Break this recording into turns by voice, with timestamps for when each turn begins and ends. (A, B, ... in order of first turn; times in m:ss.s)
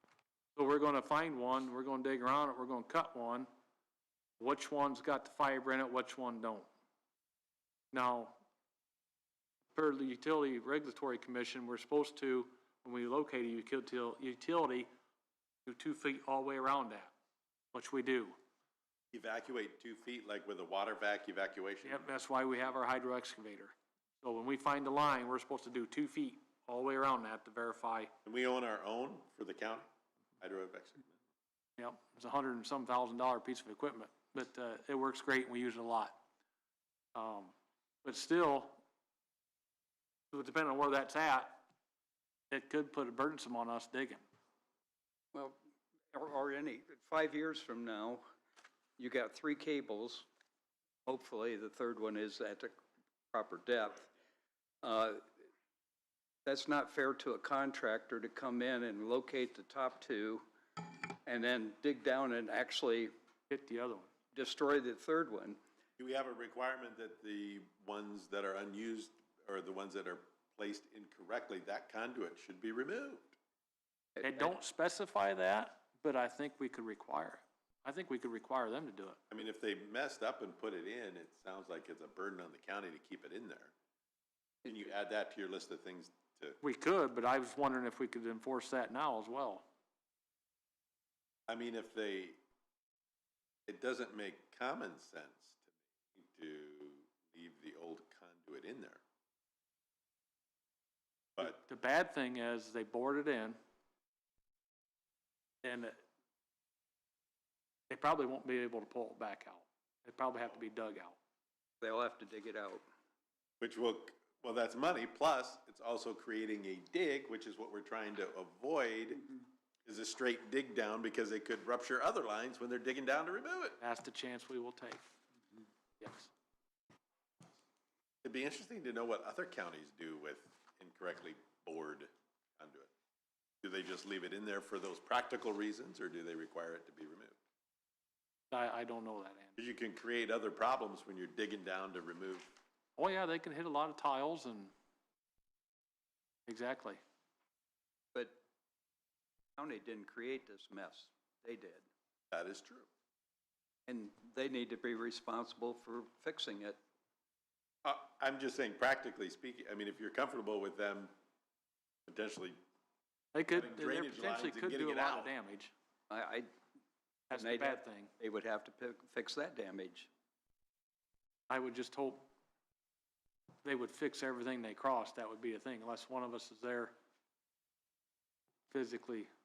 0:00.6-0:03.5 A
0:04.4-0:06.7 A
0:07.9-0:08.4 A
0:09.8-0:14.9 A
0:15.6-0:17.1 A
0:17.7-0:18.4 A
0:19.1-0:22.0 B
0:21.8-0:28.1 A
0:28.2-0:29.9 B
0:30.4-0:31.2 B
0:31.8-0:36.2 A
0:37.2-0:38.8 A
0:40.3-0:41.6 A
0:42.5-0:44.2 A
0:46.1-0:48.2 C
0:49.0-0:50.3 C
0:51.0-0:52.8 C
0:53.3-0:54.1 C
0:54.8-0:55.3 C
0:56.4-1:03.1 C
1:03.5-1:04.1 A
1:04.3-1:05.6 C
1:06.0-1:13.4 B
1:14.2-1:14.5 C
1:14.2-1:19.2 A
1:19.3-1:23.7 B
1:24.6-1:26.6 B
1:26.6-1:29.6 A
1:31.5-1:32.4 B
1:33.7-1:39.0 B
1:41.4-1:43.6 A
1:45.6-1:46.0 A
1:47.9-1:51.2 A
1:51.8-1:52.8 C
1:53.6-1:59.3 B
1:59.9-2:03.8 B
2:03.8-2:05.0 A
2:06.0-2:06.3 A
2:08.2-2:12.9 B
2:13.6-2:17.4 B
2:18.5-2:19.6 A
2:19.6-2:22.6 B
2:23.0-2:24.7 A
2:26.5-2:27.0 A
2:28.1-2:28.4 C
2:29.6-2:31.8 C
2:32.3-2:32.9 B
2:33.9-2:36.8 C
2:37.8-2:41.1 B
2:42.1-2:42.6 B
2:43.3-2:45.7 A
2:43.5-2:45.3 B
2:46.1-2:46.5 C
2:47.3-2:48.1 A
2:47.3-2:50.1 C
2:51.5-2:52.2 A
2:53.6-2:56.9 A
2:58.7-2:59.3 A